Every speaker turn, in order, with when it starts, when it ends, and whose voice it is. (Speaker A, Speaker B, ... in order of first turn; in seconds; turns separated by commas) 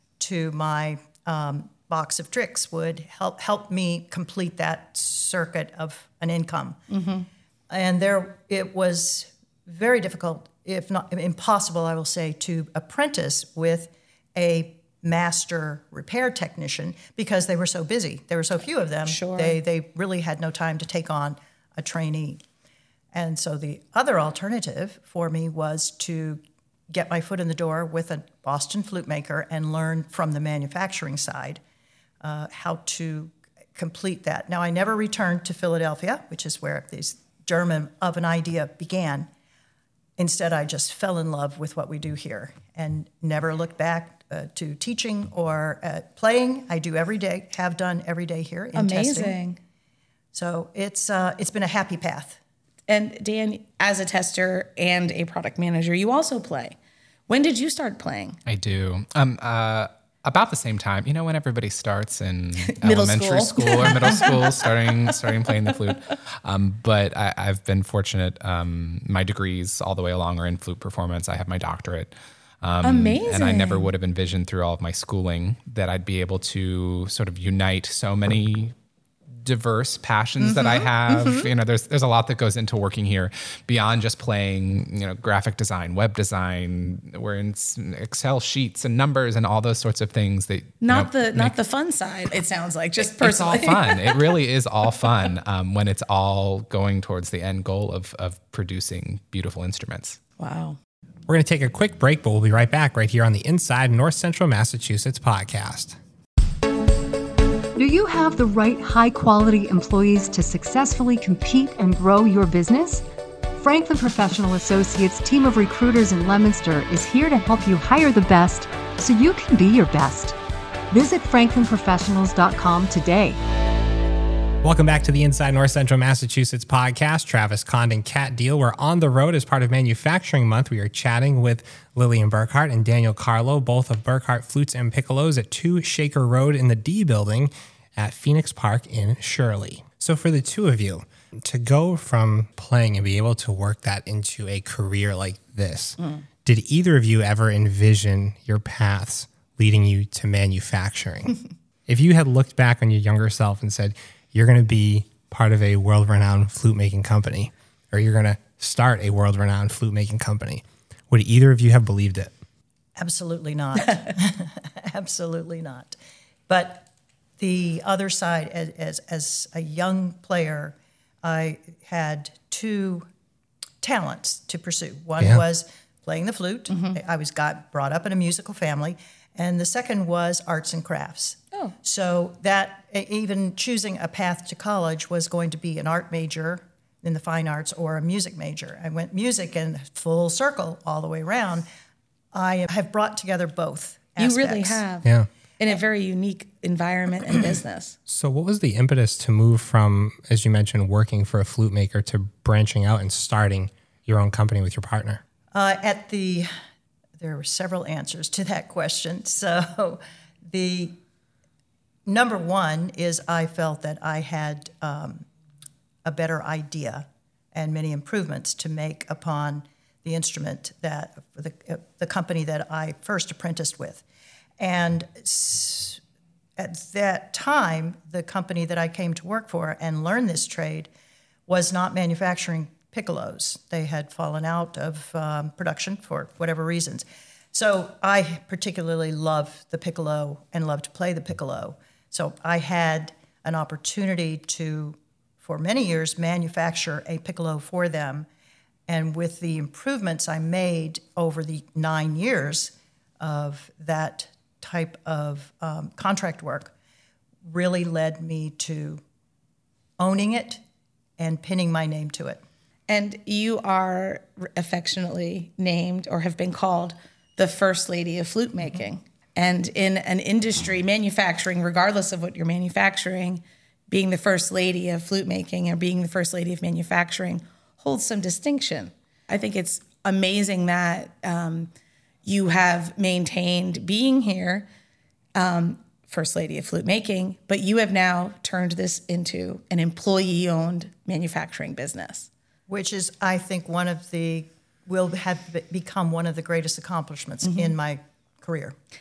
Speaker A: 0.2-6.8, Speaker B: 6.9-7.2, Speaker A: 7.7-22.4, Speaker B: 19.1-19.5, Speaker A: 23.1-31.6, Speaker A: 32.2-39.3, Speaker A: 40.2-49.4, Speaker B: 48.8-49.6, Speaker A: 50.3-52.4, Speaker B: 52.9-56.8, Speaker B: 57.3-58.4, Speaker C: 58.5-78.7, Speaker B: 62.7-65.5, Speaker B: 72.8-73.9, Speaker C: 79.4-91.5, Speaker B: 80.4-81.5, Speaker B: 90.8-94.3, Speaker C: 93.0-100.2, Speaker B: 100.4-100.8, Speaker D: 101.3-106.0, Speaker E: 107.8-113.0, Speaker E: 113.6-120.4, Speaker E: 120.9-123.4, Speaker D: 124.6-162.3, Speaker A: 163.0-166.0, Speaker A: 166.5-166.9, Speaker A: 167.4-173.1, Speaker A: 173.8-191.7, Speaker A: 192.3-194.8, Speaker B: 194.2-195.1, Speaker B: 195.6-198.0, Speaker D: 198.1-205.2, Speaker A: 205.5-206.5, Speaker A: 207.2-211.0, Speaker A: 212.1-215.2, Speaker A: 216.0-224.0, Speaker A: 224.6-226.0, Speaker A: 226.6-230.9, Speaker A: 231.5-248.2, Speaker A: 248.9-256.7, Speaker A: 257.5-259.0, Speaker A: 260.0-260.6, Speaker A: 261.2-262.4, Speaker B: 262.9-281.7, Speaker B: 282.2-284.6, Speaker B: 285.4-292.3, Speaker A: 292.7-298.8